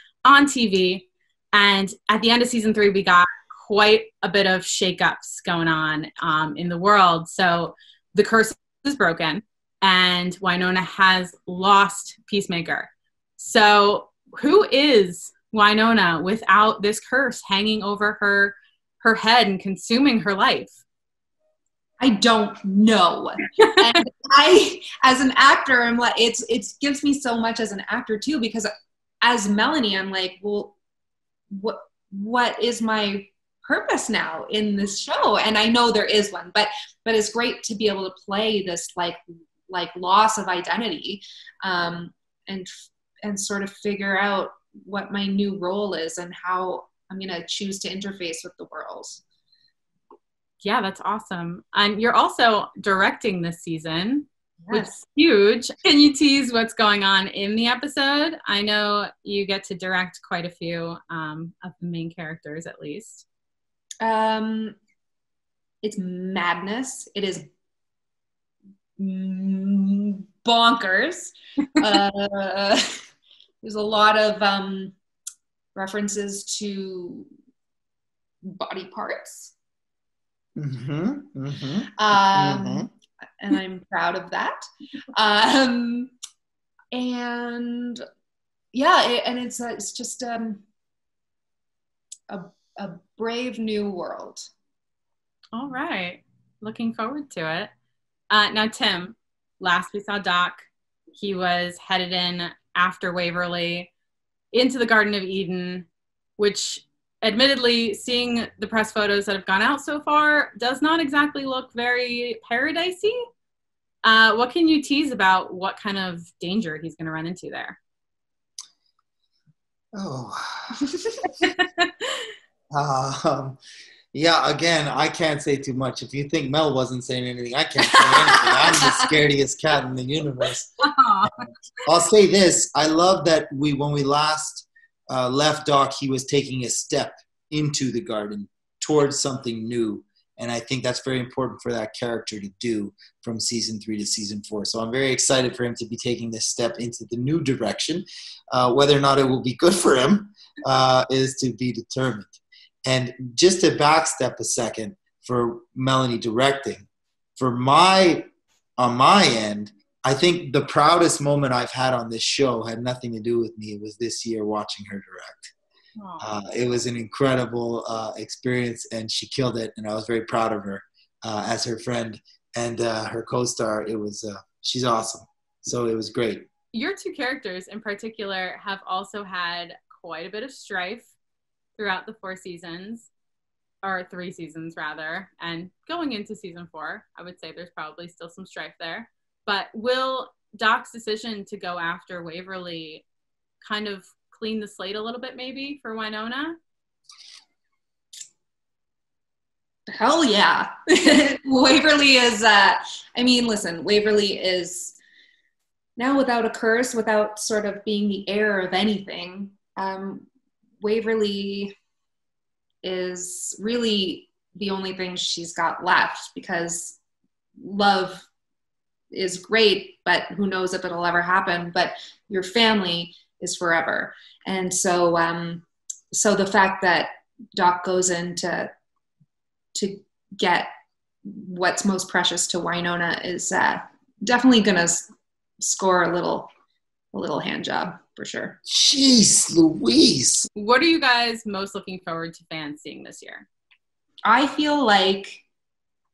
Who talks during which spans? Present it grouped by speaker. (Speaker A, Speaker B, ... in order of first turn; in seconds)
Speaker A: 0.2-20.8, 50.6-63.2, 95.5-97.7, 98.3-103.9, 104.5-113.2, 114.0-117.8, 121.4-121.9, 130.8-131.4, 166.0-166.3, 176.7-181.1, 181.8-183.1, 183.8-193.1, 193.6-196.6, 240.6-243.5
Speaker B: 22.0-28.7, 29.2-30.8, 31.5-42.7, 43.2-49.2, 54.6-54.9, 64.0-64.8, 65.8-67.4, 69.0-73.0, 73.6-74.9, 75.7-77.3, 78.4-79.5, 82.0-82.9, 83.4-84.6, 85.1-86.1, 86.9-88.0, 88.7-90.6, 92.3-94.5, 127.9-129.1, 199.9-205.0, 206.0-210.3, 210.8-211.7, 212.8-217.0, 217.6-218.3, 219.1-228.7, 229.7-230.7, 231.2-235.1, 235.6-236.5, 237.1-238.6, 244.2-245.4
Speaker C: 80.5-82.9, 120.0-120.8, 122.7-123.6, 124.1-130.7, 131.8-165.5, 166.2-176.5, 238.7-240.5